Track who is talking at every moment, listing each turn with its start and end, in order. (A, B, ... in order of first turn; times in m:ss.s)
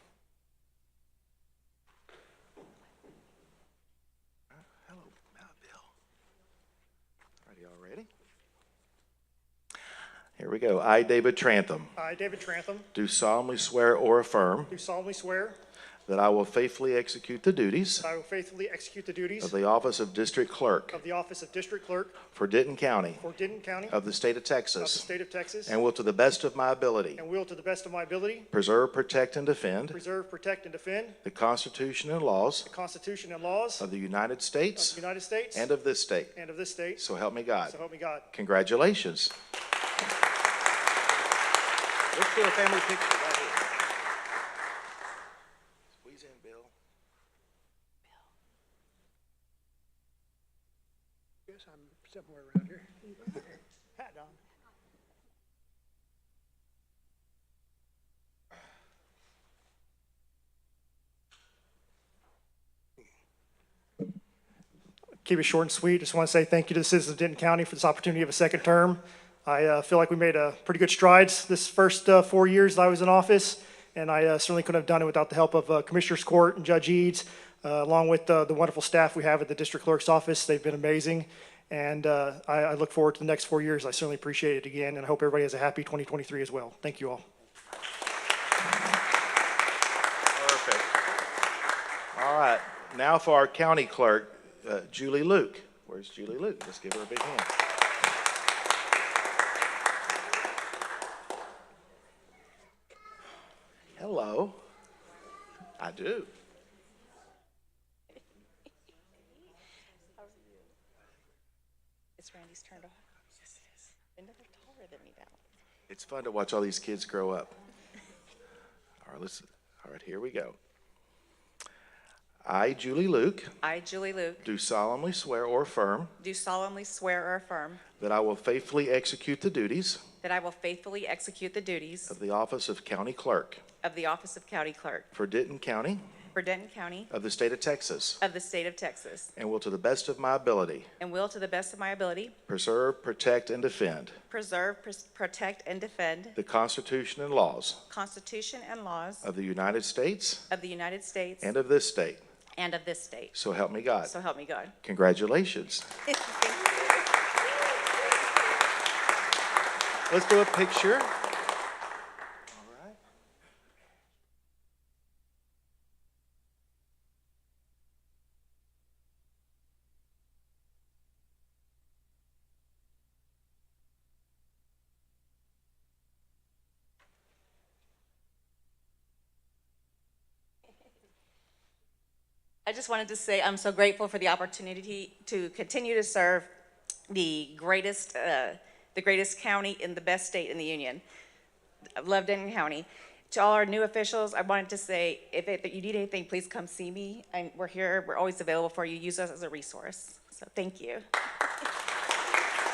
0:04.5-0:05.9 A
0:07.5-0:08.1 A
0:10.4-0:11.9 A
0:12.0-0:12.9 B
0:12.9-0:14.7 A
0:14.7-0:15.6 B
0:16.1-0:18.1 A
0:18.0-0:19.5 B
0:19.4-0:21.0 A
0:20.9-0:22.2 B
0:22.2-0:23.2 A
0:23.2-0:24.0 B
0:23.9-0:25.1 A
0:24.8-0:25.8 B
0:25.7-0:27.2 A
0:27.2-0:28.5 B
0:28.5-0:30.0 A
0:29.9-0:31.2 B
0:31.2-0:32.7 A
0:32.7-0:33.9 B
0:33.8-0:35.0 A
0:34.8-0:35.7 B
0:35.5-0:36.4 A
0:36.4-0:37.0 B
0:37.0-0:37.8 A
0:37.7-0:38.3 B
0:38.3-0:39.3 A
0:42.1-0:43.7 A
0:46.0-0:46.7 A
0:51.5-0:52.8 B
0:54.0-0:54.3 B
1:05.2-1:27.2 B
1:30.3-1:30.9 A
1:32.2-1:37.5 A
1:44.0-1:44.6 A
1:45.8-1:46.3 A
1:52.2-1:55.4 C
1:55.9-1:57.5 A
1:59.0-2:00.6 A
2:02.4-2:03.5 A
2:03.6-2:04.5 C
2:04.4-2:06.1 A
2:06.2-2:07.8 C
2:08.0-2:10.0 A
2:10.2-2:12.2 C
2:12.1-2:13.6 A
2:13.8-2:15.1 C
2:15.1-2:16.0 A
2:16.3-2:17.1 C
2:17.1-2:18.2 A
2:18.2-2:19.3 C
2:19.4-2:20.9 A
2:21.0-2:22.4 C
2:22.5-2:24.2 A
2:24.3-2:26.4 C
2:26.4-2:27.8 A
2:27.9-2:29.3 C
2:29.2-2:30.4 A
2:30.5-2:31.5 C
2:31.4-2:32.2 A
2:32.6-2:33.3 C
2:33.3-2:34.1 A
2:34.0-2:34.8 C
2:34.8-2:35.9 A
2:36.1-2:37.0 C
2:40.1-2:41.1 A
2:42.5-2:43.0 A
3:02.7-3:06.5 C
3:07.1-3:11.0 C
3:12.0-3:21.1 C